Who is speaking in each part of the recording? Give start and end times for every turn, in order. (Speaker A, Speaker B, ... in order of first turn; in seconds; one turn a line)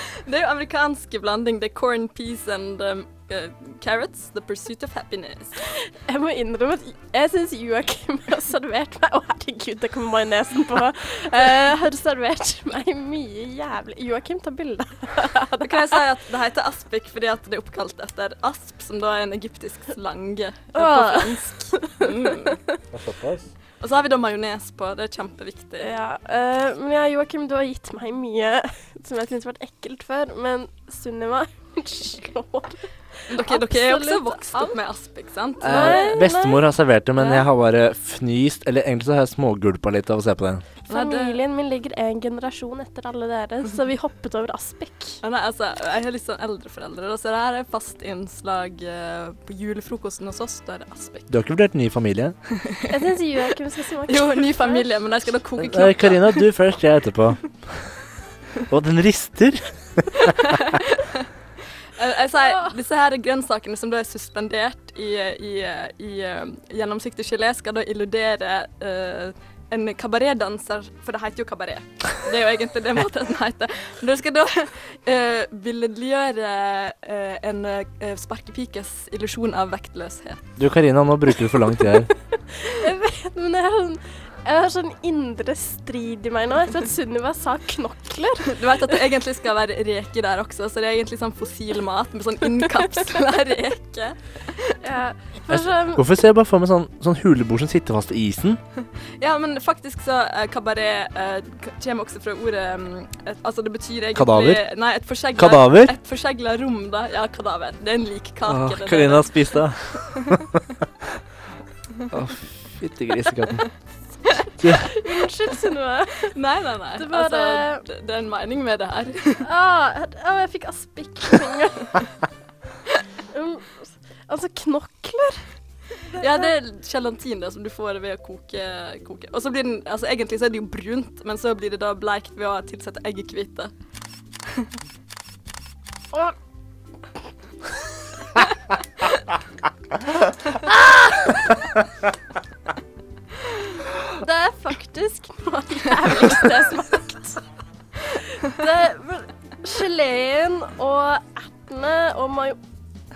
Speaker A: 0.2-5.5
Speaker B: 5.8-16.0
Speaker A: 15.6-22.6
Speaker B: 20.7-22.1
Speaker C: 22.9-23.5
Speaker A: 23.8-25.9
Speaker B: 25.8-34.8
Speaker A: 33.3-36.2
Speaker B: 35.6-36.6
Speaker C: 35.6-40.6
Speaker B: 40.9-45.2
Speaker A: 40.9-41.4
Speaker A: 45.2-51.3
Speaker C: 51.3-52.4
Speaker B: 52.9-55.0
Speaker A: 54.1-56.5
Speaker C: 55.6-57.9
Speaker C: 58.7-60.2
Speaker A: 60.4-61.2
Speaker A: 62.0-80.4
Speaker B: 62.4-62.7
Speaker C: 80.6-82.1
Speaker B: 82.6-88.5
Speaker A: 88.5-94.2
Speaker B: 94.8-96.0
Speaker C: 95.5-98.6
Speaker A: 99.2-109.6
Speaker C: 104.1-104.6
Speaker C: 105.3-105.9
Speaker C: 108.5-110.3
Speaker C: 112.1-113.6
Speaker C: 114.6-114.8
Speaker B: 114.9-116.3
Speaker A: 116.3-119.4
Speaker B: 117.0-117.8
Speaker B: 119.4-121.9
Speaker B: 123.3-125.5
Speaker A: 126.1-133.7
Speaker B: 126.2-126.5
Speaker B: 144.1-147.4
Speaker B: 148.4-152.6